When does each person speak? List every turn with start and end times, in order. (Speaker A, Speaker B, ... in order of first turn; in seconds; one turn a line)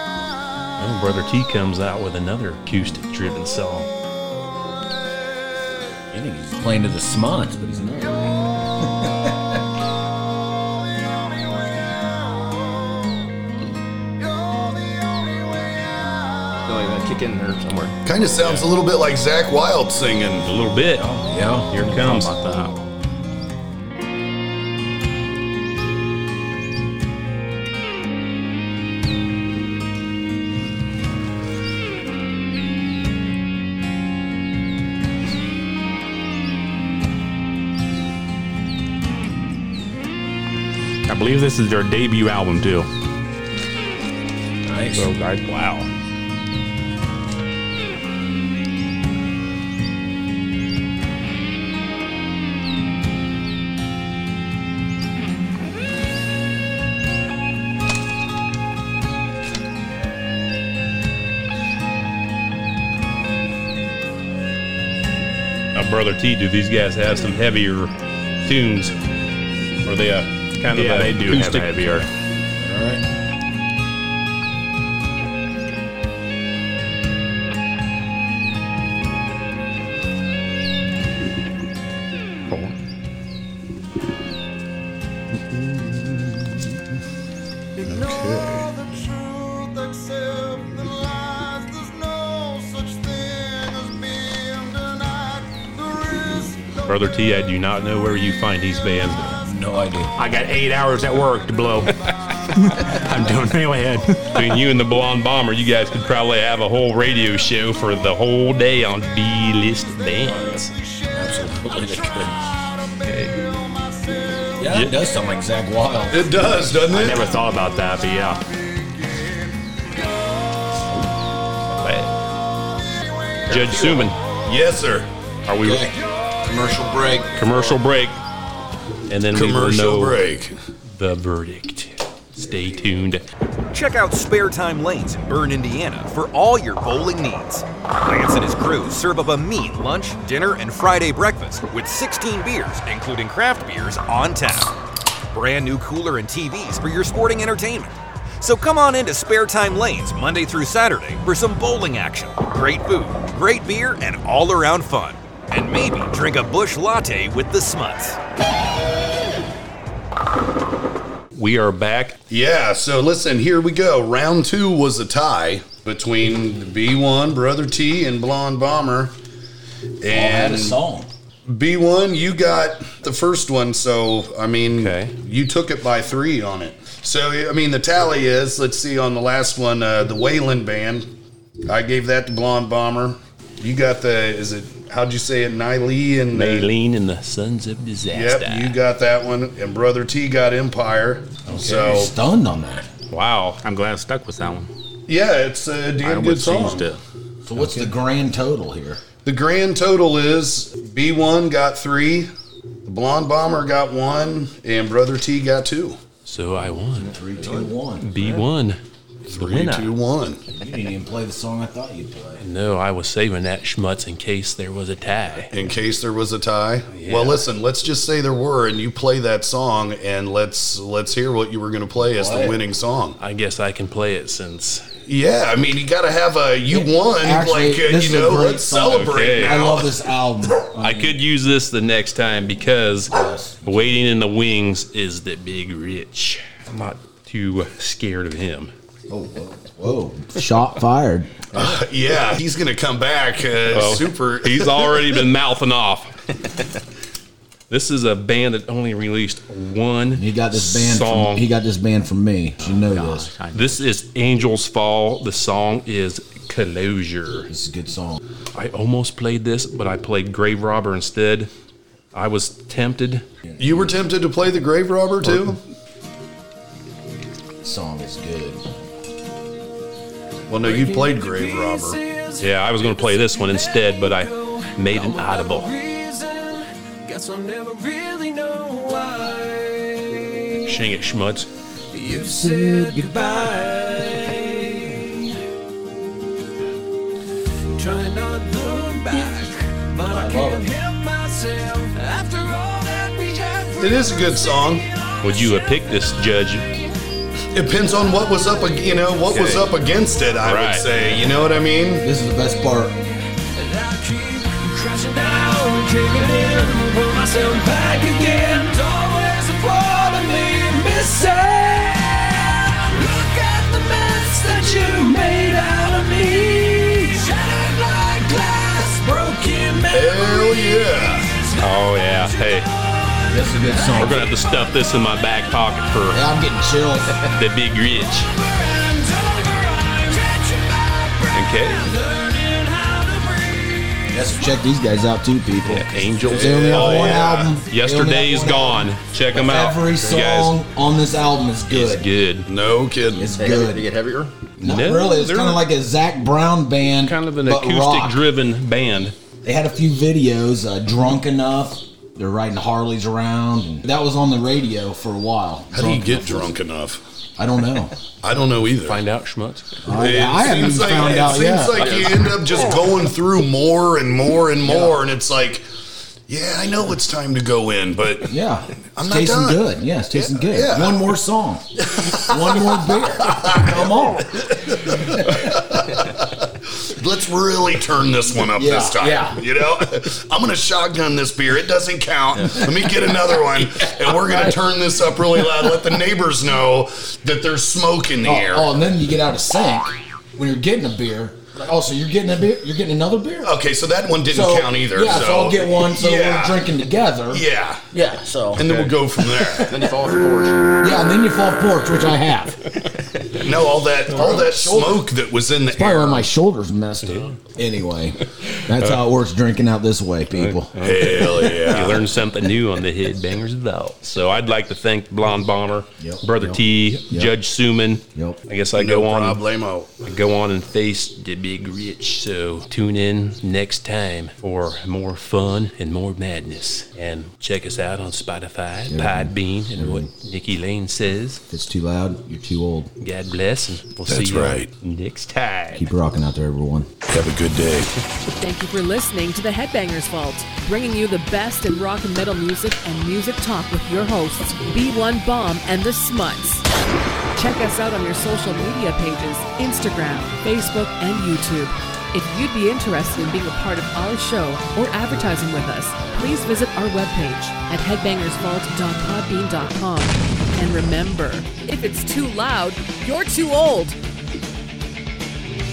Speaker A: 0.8-3.9
Speaker B: 6.1-9.6
Speaker C: 16.6-17.9
Speaker D: 18.0-20.5
Speaker A: 20.4-21.2
Speaker B: 20.9-21.7
Speaker A: 21.7-22.3
Speaker E: 21.7-22.7
Speaker E: 41.1-42.9
Speaker B: 44.6-45.1
Speaker E: 44.9-45.9
Speaker A: 65.7-67.9
Speaker A: 68.4-68.9
Speaker A: 69.8-72.0
Speaker E: 70.7-72.1
Speaker B: 72.5-73.0
Speaker D: 85.5-86.6
Speaker D: 87.8-88.8
Speaker A: 96.8-99.4
Speaker B: 99.5-100.1
Speaker E: 100.1-101.9
Speaker E: 102.7-104.3
Speaker A: 104.3-110.7
Speaker B: 111.1-112.4
Speaker A: 113.0-113.3
Speaker B: 114.6-116.4
Speaker A: 114.7-115.0
Speaker D: 116.1-117.3
Speaker E: 116.9-118.4
Speaker A: 121.8-122.1
Speaker A: 123.5-124.2
Speaker D: 124.4-125.1
Speaker A: 125.5-125.8
Speaker B: 125.6-127.6
Speaker A: 127.3-128.2
Speaker A: 129.1-130.2
Speaker D: 129.3-130.6
Speaker A: 130.9-133.2
Speaker F: 133.7-144.7
Speaker F: 145.3-158.2
Speaker A: 161.3-162.2
Speaker D: 162.3-169.1
Speaker D: 170.0-170.8
Speaker B: 170.1-171.1
Speaker D: 171.5-181.1
Speaker A: 174.7-175.1
Speaker D: 181.7-186.7
Speaker A: 186.3-188.8
Speaker D: 188.1-192.1
Speaker B: 191.5-192.9
Speaker E: 193.1-194.7
Speaker D: 195.1-196.9
Speaker E: 196.0-197.0
Speaker B: 197.4-199.0
Speaker D: 199.2-202.3
Speaker D: 202.8-206.0
Speaker A: 206.2-207.1
Speaker B: 207.0-208.4
Speaker A: 208.0-208.8
Speaker D: 209.2-210.4
Speaker A: 209.3-209.9
Speaker B: 210.5-212.4
Speaker A: 212.4-215.5
Speaker D: 215.5-223.2
Speaker A: 216.9-217.4
Speaker B: 222.1-222.6
Speaker A: 223.2-224.8
Speaker D: 225.1-230.0
Speaker B: 226.7-231.2
Speaker A: 228.8-229.6
Speaker A: 230.8-233.1
Speaker B: 233.1-233.8
Speaker A: 233.6-238.7
Speaker B: 239.1-241.4
Speaker D: 241.5-245.2
Speaker A: 243.7-246.1
Speaker A: 247.7-251.5
Speaker B: 250.1-253.3
Speaker E: 252.8-253.8
Speaker A: 253.5-257.5
Speaker B: 257.5-258.2
Speaker A: 258.5-261.5
Speaker A: 262.1-263.2
Speaker B: 263.5-263.9
Speaker D: 263.6-265.6
Speaker B: 267.6-268.6
Speaker D: 270.5-272.0
Speaker G: 270.6-280.8
Speaker A: 272.4-275.7
Speaker A: 280.6-281.5
Speaker G: 281.9-285.4
Speaker B: 282.1-283.5
Speaker G: 287.8-296.2
Speaker B: 290.1-290.7
Speaker D: 293.8-294.8
Speaker A: 295.2-296.7
Speaker D: 297.5-302.1
Speaker A: 299.3-299.7
Speaker A: 300.4-300.9
Speaker B: 302.0-303.0
Speaker G: 303.5-321.6
Speaker D: 319.9-321.2
Speaker A: 321.6-322.7
Speaker G: 322.3-322.6
Speaker G: 323.3-324.2
Speaker B: 323.3-324.2
Speaker A: 323.9-326.2
Speaker B: 326.1-327.2
Speaker A: 327.2-328.3
Speaker G: 328.3-334.3
Speaker A: 331.3-331.9
Speaker B: 334.1-342.1
Speaker A: 335.6-340.6
Speaker D: 336.2-337.6
Speaker A: 341.7-342.5
Speaker D: 342.4-343.3
Speaker B: 343.2-343.9
Speaker C: 343.3-344.3
Speaker A: 344.6-345.6
Speaker B: 344.6-348.2
Speaker A: 347.0-349.1
Speaker B: 349.4-356.5
Speaker D: 355.7-357.0
Speaker B: 357.4-357.9
Speaker D: 358.2-359.0
Speaker A: 358.8-359.8
Speaker B: 359.8-362.2
Speaker D: 359.9-365.6
Speaker C: 361.7-362.1
Speaker B: 364.6-365.0
Speaker D: 366.3-368.3
Speaker B: 368.3-374.4
Speaker D: 368.9-371.1
Speaker D: 372.0-388.7
Speaker B: 375.0-375.5
Speaker B: 378.5-379.4
Speaker C: 382.4-382.7
Speaker B: 382.8-385.8
Speaker B: 388.2-393.6
Speaker D: 393.4-396.7
Speaker B: 394.3-399.7
Speaker D: 397.3-397.8
Speaker D: 398.6-399.7
Speaker C: 399.6-400.7
Speaker B: 400.8-402.8
Speaker D: 403.3-406.3
Speaker B: 404.1-405.1
Speaker B: 405.7-410.7
Speaker A: 407.0-407.3
Speaker A: 410.3-419.4
Speaker D: 410.8-412.2
Speaker B: 416.0-417.3
Speaker D: 418.7-419.9
Speaker A: 420.0-431.4
Speaker B: 428.9-430.1
Speaker B: 431.5-432.9
Speaker A: 433.0-435.9
Speaker D: 434.1-434.7
Speaker B: 435.7-436.9
Speaker D: 437.1-437.9
Speaker H: 438.4-446.6
Speaker H: 447.3-463.9